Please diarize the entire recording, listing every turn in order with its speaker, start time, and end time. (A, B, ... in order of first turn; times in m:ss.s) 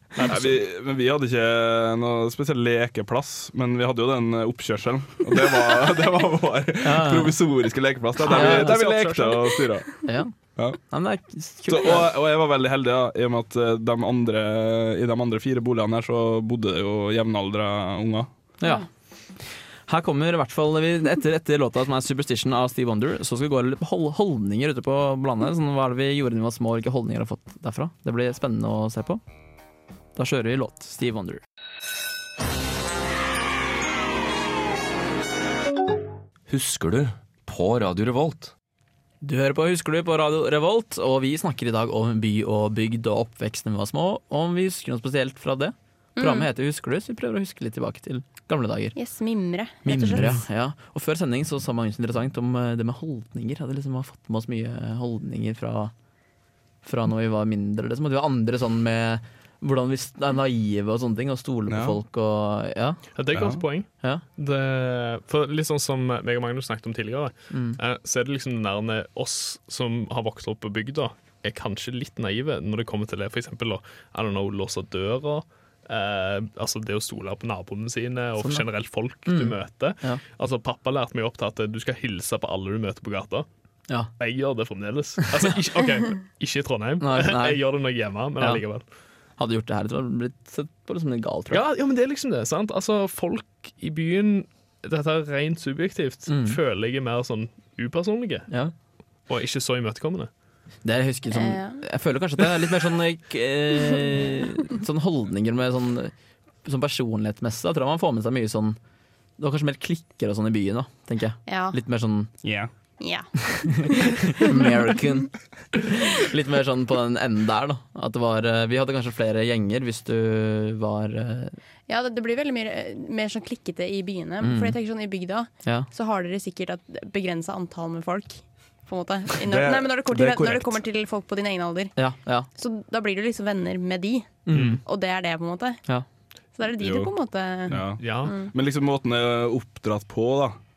0:00.2-0:00.5 A
0:00.2-0:10.0 B
0:06.8-0:07.4 C
0:08.2-0:09.6 A
0:08.3-0:08.8 C
0:10.0-0:10.3 C
0:10.9-0:12.1 C
0:11.7-0:18.3 B
0:18.6-0:18.8 C
0:19.9-0:29.2 C
0:30.2-0:31.4 C
0:36.5-0:38.5 D
0:39.2-0:48.9 C
0:46.2-0:46.5 E
0:48.9-0:50.4 E
0:49.8-0:55.9 C
0:56.8-1:03.0 C
1:01.7-1:02.0 B
1:03.1-1:23.4 A
1:03.3-1:03.6 B
1:07.5-1:07.8 C
1:18.4-1:18.6 C
1:19.2-1:20.2 C
1:24.2-1:28.8 A
1:27.0-1:27.6 C
1:29.4-1:31.6 C
1:31.5-1:38.5 A
1:36.3-1:36.6 C
1:39.3-1:40.3 A
1:40.8-1:46.1 C
1:41.3-1:41.8 E
1:46.6-1:48.8 C
1:49.4-1:52.3 C
1:51.5-1:51.8 E
1:52.4-1:52.7 B
1:53.0-1:54.7 E
1:53.6-2:01.6 C
2:01.9-2:11.9 E
2:04.4-2:04.8 C
2:09.4-2:10.8 B
2:12.0-2:12.5 C
2:12.6-2:15.8 E
2:14.4-2:14.8 C
2:14.5-2:14.8 A
2:16.6-2:18.5 E
2:16.8-2:17.1 B
2:17.7-2:20.6 B
2:18.0-2:18.3 A